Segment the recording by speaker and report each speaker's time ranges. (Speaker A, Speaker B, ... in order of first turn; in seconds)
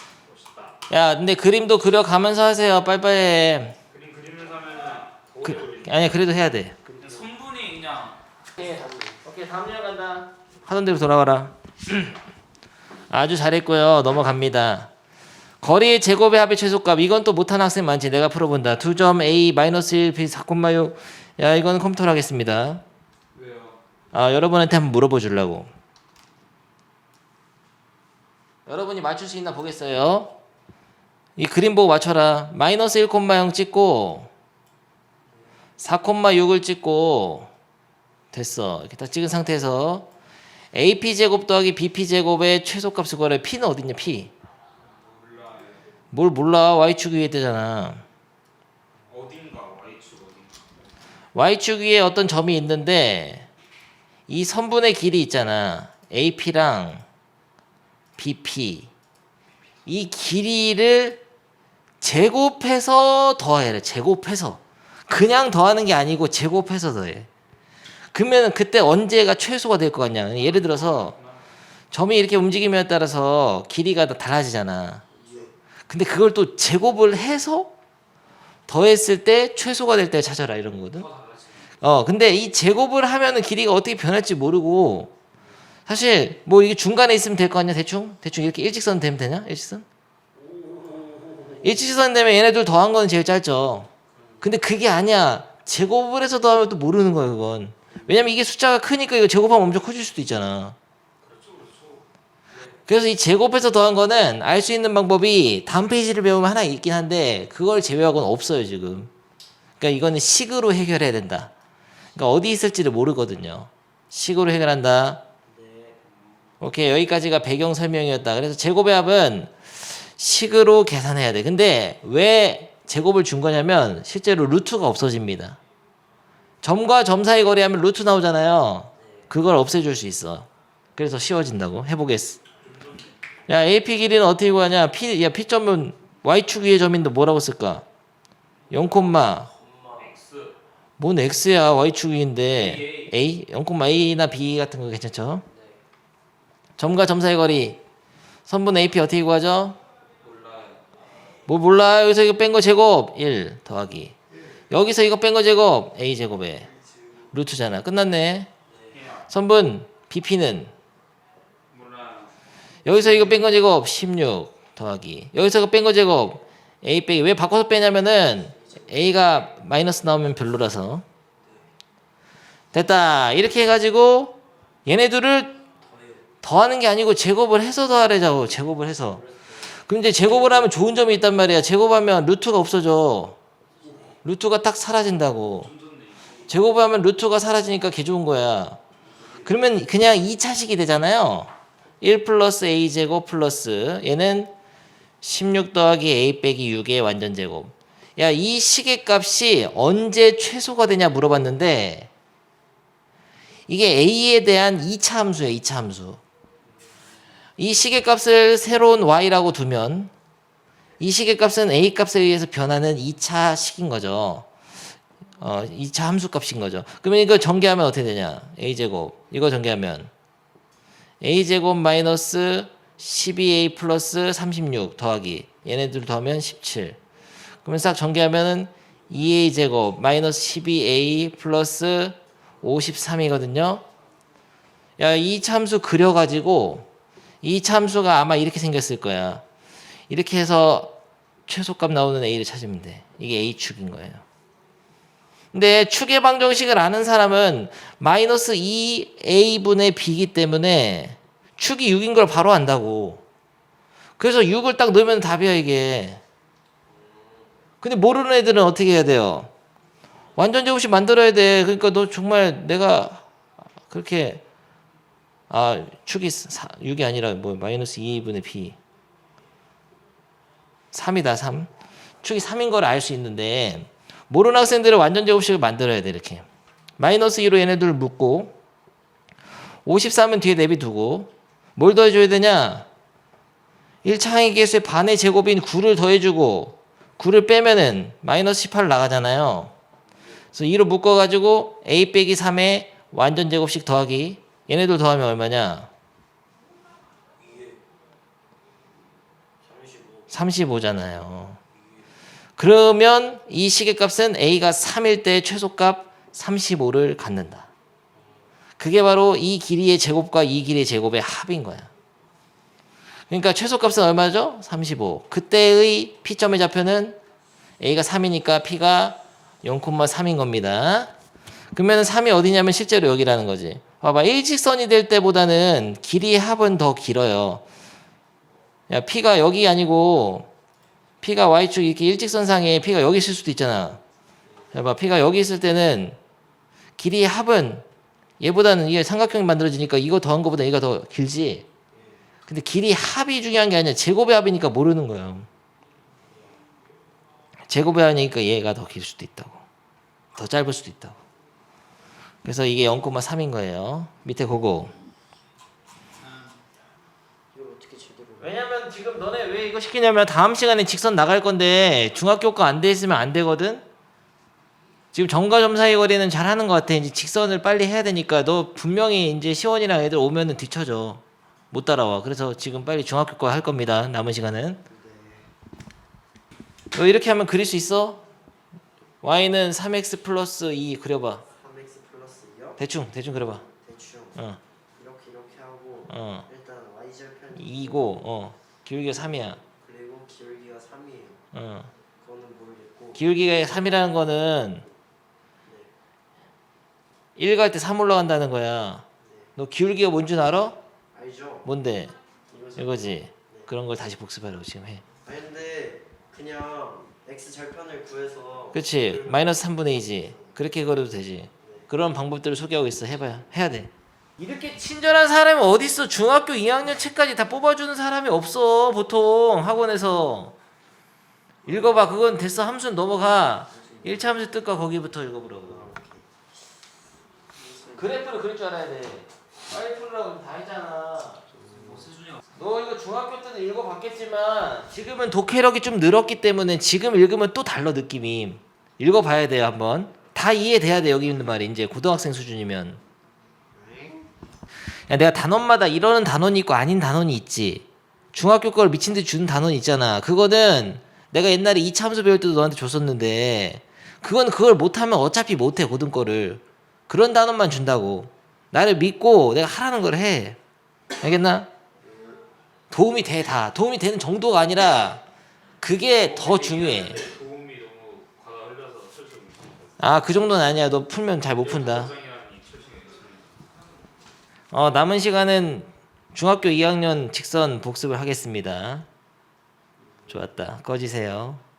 Speaker A: 0.3-0.7, 3.9-5.9, 7.0-8.2, 23.3-23.8, 44.9-45.8, 49.1-50.6, 70.4-71.3, 81.0-81.7, 101.2-102.0, 132.7-133.1, 140.0-140.5, 142.5-143.1, 150.2-150.8, 158.9-159.2, 161.7-162.3, 185.6-186.5, 466.2-469.9, 471.6-473.4
Speaker B: 0.9-3.8, 5.4-6.8, 8.6-12.2, 13.1-14.9, 15.6-22.8, 24.1-25.7, 28.6-30.3, 31.4-34.3, 35.8-37.5, 38.3-40.1, 40.7-44.3, 46.1-48.0, 51.3-53.5, 54.3-57.0, 58.2-58.9, 59.9-61.2, 62.0-67.3, 68.1-71.2, 71.9-75.0, 75.9-77.7, 78.7-81.1, 81.8-85.1, 85.9-89.8, 91.6-93.9, 94.4-100.8, 102.9-109.1, 109.8-111.5, 112.1-115.2, 116.6-125.6, 126.6-132.4, 133.5-137.8, 138.7-139.5, 141.0-145.4, 146.8-147.8, 148.4-149.8, 151.5-154.1, 154.7-156.7, 157.3-158.5, 159.3-160.7, 162.8-171.0, 172.7-175.6, 176.4-179.2, 179.7-183.4, 184.2-185.7, 186.5-188.8, 189.4-191.5, 192.0-194.5, 195.2-202.1, 203.7-206.2, 207.6-210.1, 211.0-214.5, 215.4-220.1, 221.2-227.0, 227.6-233.8, 235.0-236.9, 237.4-239.4, 240.1-240.9, 241.5-244.2, 245.5-253.2, 254.2-256.2, 257.8-259.5, 260.4-263.2, 263.9-264.4, 265.5-268.8, 270.9-271.7, 272.2-276.4, 277.0-278.5, 279.9-282.9, 284.0-289.7, 290.5-295.9, 300.3-301.6, 302.6-307.7, 308.8-311.9, 313.3-317.2, 317.8-321.1, 321.7-327.6, 328.9-330.5, 331.2-334.0, 334.7-336.2, 337.0-337.8, 338.4-341.7, 342.5-345.5, 347.7-349.6, 350.3-351.2, 352.4-354.9, 358.4-363.8, 365.1-374.8, 376.9-378.2, 379.2-381.4, 382.8-383.6, 386.1-386.5, 387.5-389.6, 391.5-391.9, 393.1-394.8, 397.4-399.0, 399.6-400.8, 401.6-402.1, 402.8-405.0, 408.7-420.6, 421.6-425.9, 427.9-431.4, 432.6-443.0, 445.1-460.6, 461.2-461.7, 462.9-465.2, 465.8-467.2, 470.0-472.1, 474.7-479.1, 480.3-481.6
Speaker C: 6.9-7.2, 8.6-9.1, 75.1-75.5, 90.4-91.7, 94.1-94.5, 97.9-98.3, 115.5-116.2, 139.5-140.1, 156.7-157.2, 158.7-159.0, 168.5-169.1, 175.8-176.2, 179.1-180.7, 183.8-184.2, 189.1-189.6, 256.9-257.5, 299.6-300.3, 308.2-308.4, 341.9-342.2, 357.5-358.5, 374.9-375.5, 381.5-382.8, 383.7-384.4, 384.9-388.1, 389.8-391.4, 392.2-393.2, 395.6-395.9, 399.2-399.5, 401.1-401.7, 402.5-403.7, 405.2-409.5, 410.2-410.5, 411.6-411.9, 421.6-422.1, 423.7-424.3, 425.6-426.3, 427.5-428.2, 431.5-432.1, 443.7-444.3, 462.0-462.4, 480.0-480.4